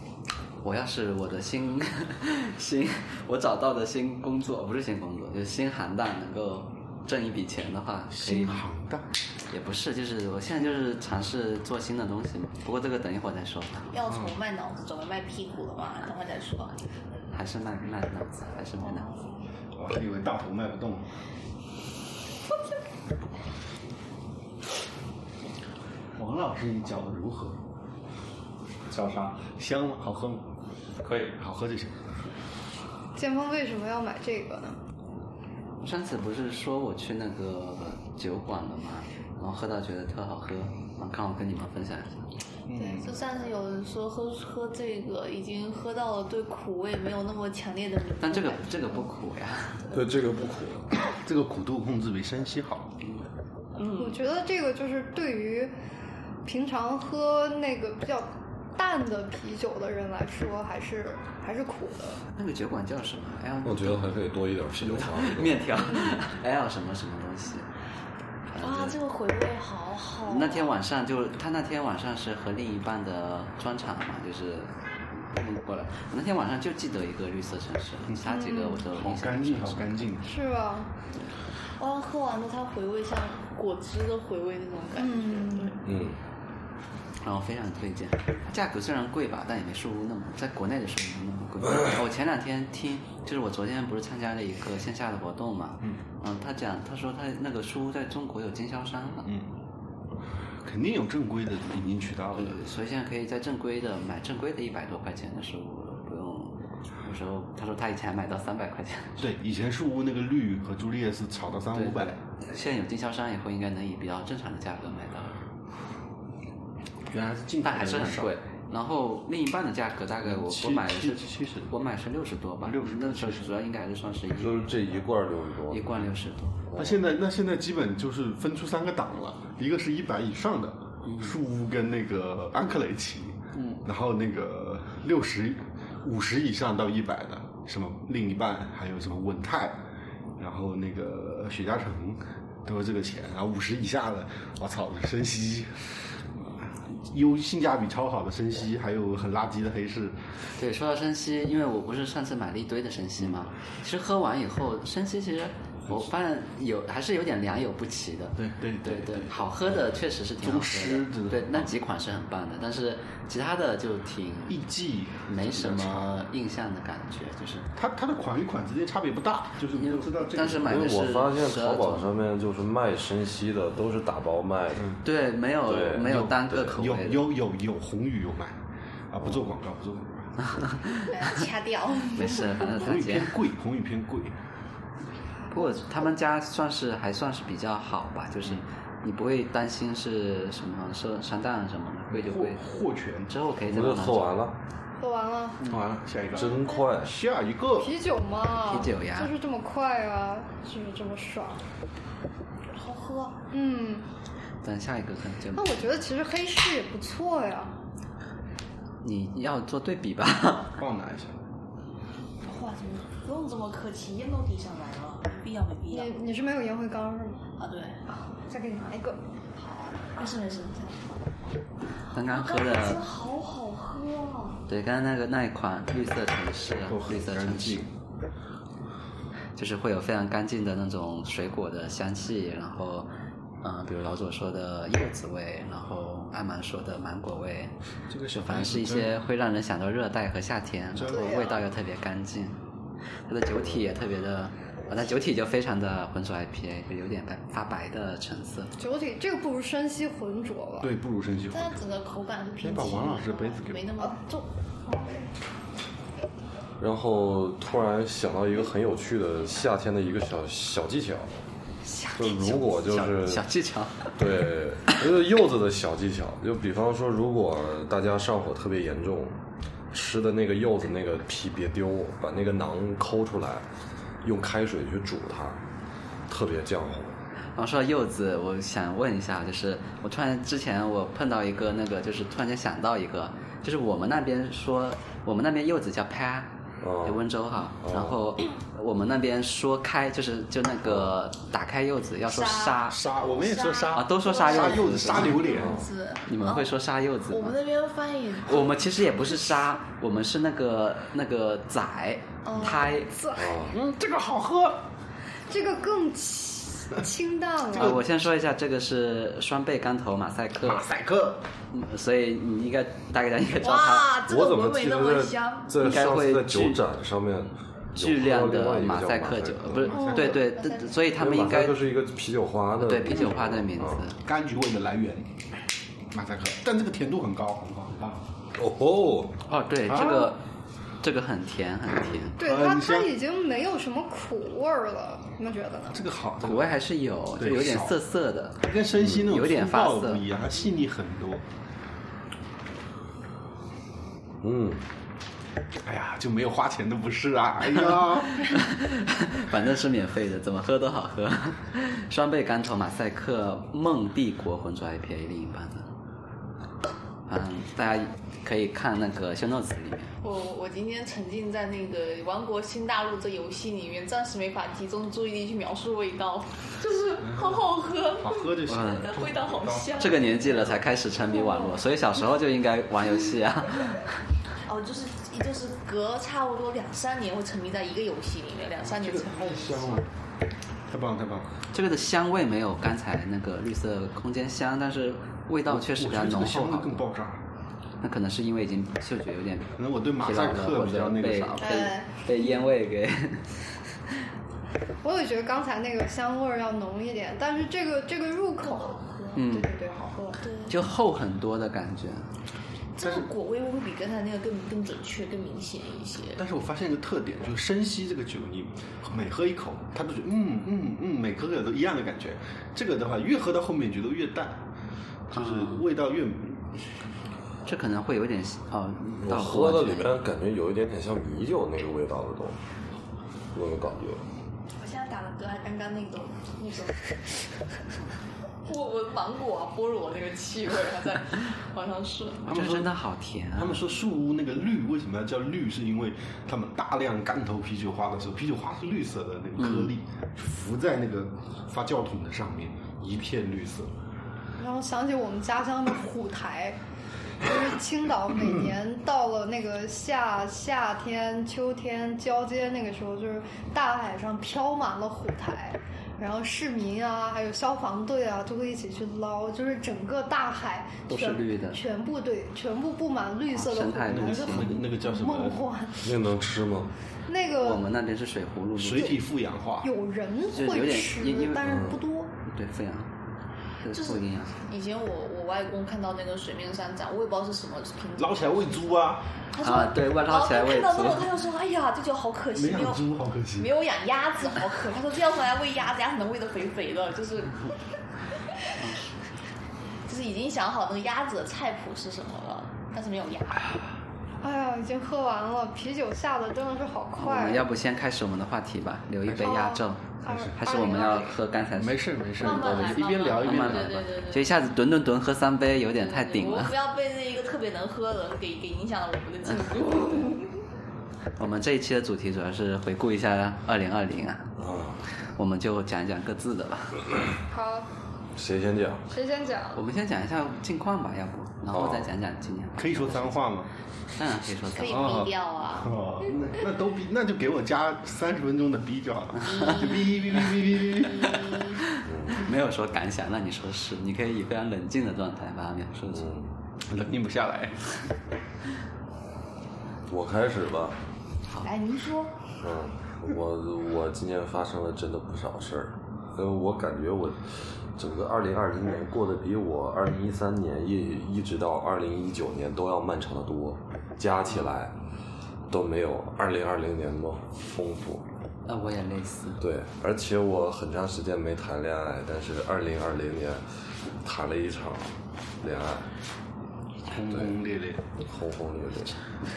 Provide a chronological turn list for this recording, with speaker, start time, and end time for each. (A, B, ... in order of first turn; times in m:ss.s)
0:00.6-0:08.6 A
0:08.1-0:09.1 B
0:09.5-0:13.9 A
0:13.9-0:16.8 C
0:17.3-0:19.1 A
0:18.8-0:19.4 C
0:19.8-0:21.1 B
0:26.2-0:27.6 B
0:28.9-0:30.4 B
0:31.1-0:32.1 B
0:33.1-0:34.8 D
0:35.8-0:42.3 A
0:42.7-0:43.1 B
0:42.7-0:49.1 C
0:48.2-0:49.9 A
0:49.9-0:50.9 E
0:51.0-0:52.9 B
0:53.0-0:53.3 A
0:53.7-0:54.2 C
0:53.9-0:55.7 D
0:56.4-1:02.2 D
1:02.4-1:04.1 A
1:03.6-1:05.6 E
1:04.8-1:07.7 A
1:08.5-1:09.0 A
1:08.6-1:10.7 C
1:10.2-1:20.1 A
1:18.1-1:20.3 B
1:18.4-1:18.8 D
1:20.2-1:20.9 D
1:21.8-1:25.8 C
1:25.0-1:25.8 D
1:25.8-1:26.2 E
1:27.2-1:39.3 A
1:40.6-1:42.6 B
1:42.3-1:49.2 A
1:49.2-1:52.1 B
1:51.7-1:55.4 A
1:57.1-1:58.3 B
1:57.6-2:04.7 A
2:00.2-2:01.7 B
2:02.6-2:03.5 B
2:04.4-2:05.9 E
2:05.7-2:06.6 A
2:06.7-2:07.0 E
2:06.7-2:19.8 B
2:11.0-2:11.3 A
2:20.4-2:30.2 B
2:30.6-2:44.6 A
2:38.4-2:41.7 B
2:44.5-2:46.2 B
2:45.2-2:47.7 A
2:47.7-2:50.8 B
2:49.7-2:52.1 A
2:50.6-2:54.9 E
2:55.0-2:57.2 A
2:55.6-2:56.7 E
2:56.0-2:58.6 B
2:59.1-3:00.4 B
3:00.4-3:01.4 A
3:01.1-3:02.5 C
3:02.1-3:03.4 A
3:02.6-3:04.3 B
3:05.5-3:12.6 A
3:12.1-3:13.3 B
3:13.3-3:14.4 A
3:13.6-3:14.6 E
3:15.0-3:15.6 D
3:15.6-3:17.9 B
3:16.3-3:17.1 E
3:16.4-3:16.8 C
3:17.8-3:21.6 D
3:18.6-3:19.3 A
3:22.7-3:23.4 C
3:23.5-3:24.0 D
3:24.6-3:25.9 A
3:25.5-3:27.8 D
3:29.0-3:30.8 A
3:30.8-3:31.3 B
3:32.4-3:36.1 C
3:35.9-3:37.5 D
3:37.6-3:38.0 C
3:38.1-3:39.2 D
3:39.6-3:41.1 C
3:42.1-3:43.0 A
3:42.2-3:44.6 C
3:44.7-3:47.8 A
3:46.8-3:47.9 B
3:49.6-3:53.1 A
3:53.6-3:57.7 A
3:58.1-3:59.2 B
3:58.3-4:02.6 A
4:00.9-4:01.5 B
4:01.1-4:01.6 D
4:03.3-4:08.7 A
4:03.6-4:03.8 E
4:08.8-4:10.9 D
4:10.8-4:11.9 B
4:11.5-4:14.5 C
4:12.6-4:13.9 B
4:14.9-4:15.2 D
4:16.8-4:21.4 E
4:21.8-4:22.7 D
4:22.1-4:23.5 E
4:22.8-4:24.2 A
4:24.2-4:29.4 E
4:29.9-4:33.6 E
4:34.2-4:35.6 E
4:36.3-4:37.2 E
4:37.6-4:46.5 A
4:46.8-4:47.2 E
4:47.0-4:53.0 A
4:47.8-4:48.2 E
4:52.3-4:56.7 C
4:52.9-4:55.7 B
4:53.9-4:55.4 A
4:55.5-4:55.9 E
4:56.2-4:57.6 A
4:57.3-4:58.8 C
4:58.4-5:03.1 A
5:02.4-5:02.9 C
5:03.1-5:03.6 D
5:03.3-5:03.8 E
5:03.7-5:04.8 B
5:05.5-5:08.0 D
5:07.7-5:08.0 B
5:07.7-5:10.9 A
5:10.6-5:11.4 B
5:11.7-5:14.1 A
5:13.6-5:15.7 C
5:14.3-5:19.9 E
5:15.8-5:16.8 A
5:17.9-5:21.8 A
5:19.8-5:20.5 B
5:19.9-5:20.8 C
5:21.1-5:24.0 E
5:22.8-5:24.2 A
5:24.2-5:25.3 B
5:26.1-5:28.2 B
5:28.6-5:29.4 E
5:29.5-5:30.4 A
5:29.8-5:30.3 B
5:31.0-5:32.4 A
5:32.2-5:33.1 B
5:32.4-5:36.1 D
5:35.9-5:36.7 B
5:36.4-5:40.2 A
5:37.4-5:38.0 B
5:38.6-5:41.4 B
5:44.4-5:44.8 E
5:45.8-5:48.6 B
5:48.4-5:55.9 A
5:57.3-6:00.1 A
6:00.2-6:10.2 C
6:07.2-6:07.6 B
6:08.2-6:10.4 B
6:08.7-6:09.1 A
6:10.0-6:14.1 A
6:11.3-6:11.7 C
6:14.6-6:20.0 C
6:18.8-6:20.1 B
6:20.9-6:21.5 B
6:21.7-6:27.0 A
6:25.7-6:27.4 B
6:28.0-6:33.9 A
6:29.8-6:31.7 B
6:31.6-6:32.1 C
6:35.0-6:40.4 D
6:38.6-6:39.4 C
6:39.3-6:39.7 A
6:40.4-6:40.7 C
6:40.7-6:42.3 A
6:43.0-6:46.4 C
6:43.0-6:43.3 B
6:46.4-6:54.6 B
6:55.3-6:56.8 B
6:55.3-6:55.8 A
6:57.6-7:00.1 A
6:59.2-7:02.6 E
7:03.5-7:04.2 E
7:04.8-7:07.5 C
7:08.6-7:12.4 C
7:12.4-7:13.8 A
7:12.5-7:12.9 B
7:13.6-7:23.9 B
7:19.6-7:19.9 A
7:24.6-7:26.8 D
7:27.4-7:46.1 D
7:41.1-7:41.8 A
7:43.5-7:44.9 A
7:44.1-7:45.7 B
7:46.0-7:46.9 E
7:47.3-7:47.8 D
7:47.6-7:49.2 A
7:48.8-7:49.9 B
7:49.8-7:52.3 D
7:50.5-7:51.9 A
7:51.6-7:52.0 E
7:52.4-7:53.1 A
7:53.8-7:54.5 A
7:53.9-8:07.7 C
7:58.2-7:59.3 B
7:59.6-8:01.3 A
8:02.5-8:03.7 B
8:08.8-8:09.1 A
8:10.1-8:13.6 C
8:14.4-8:17.7 D
8:17.2-8:26.7 A
8:19.3-8:19.6 B
8:19.6-8:21.4 D
8:20.3-8:20.5 B
8:21.8-8:24.0 B
8:22.4-8:24.5 C
8:26.0-8:30.5 C
8:31.4-8:34.6 A
8:34.6-8:35.0 E
8:35.1-8:37.0 A
8:37.5-8:37.9 D
8:38.4-8:39.0 E
8:39.1-8:39.8 D
8:39.7-8:43.4 A
8:41.7-8:42.1 E
8:42.8-8:43.7 B
8:44.1-8:45.3 A
8:44.7-8:46.0 C
8:44.9-8:51.4 B
8:49.4-8:49.8 A
8:49.5-8:50.5 C
8:51.2-8:51.8 C
8:51.2-8:56.3 A
8:52.0-8:52.4 E
8:56.1-8:56.5 E
8:56.8-8:57.9 B
9:00.1-9:01.0 E
9:01.6-9:02.4 C
9:02.6-9:14.9 E
9:15.7-9:18.2 E
9:18.6-9:19.6 A
9:19.6-9:23.6 E
9:24.2-9:26.1 E
9:27.1-9:28.0 B
9:28.2-9:29.2 E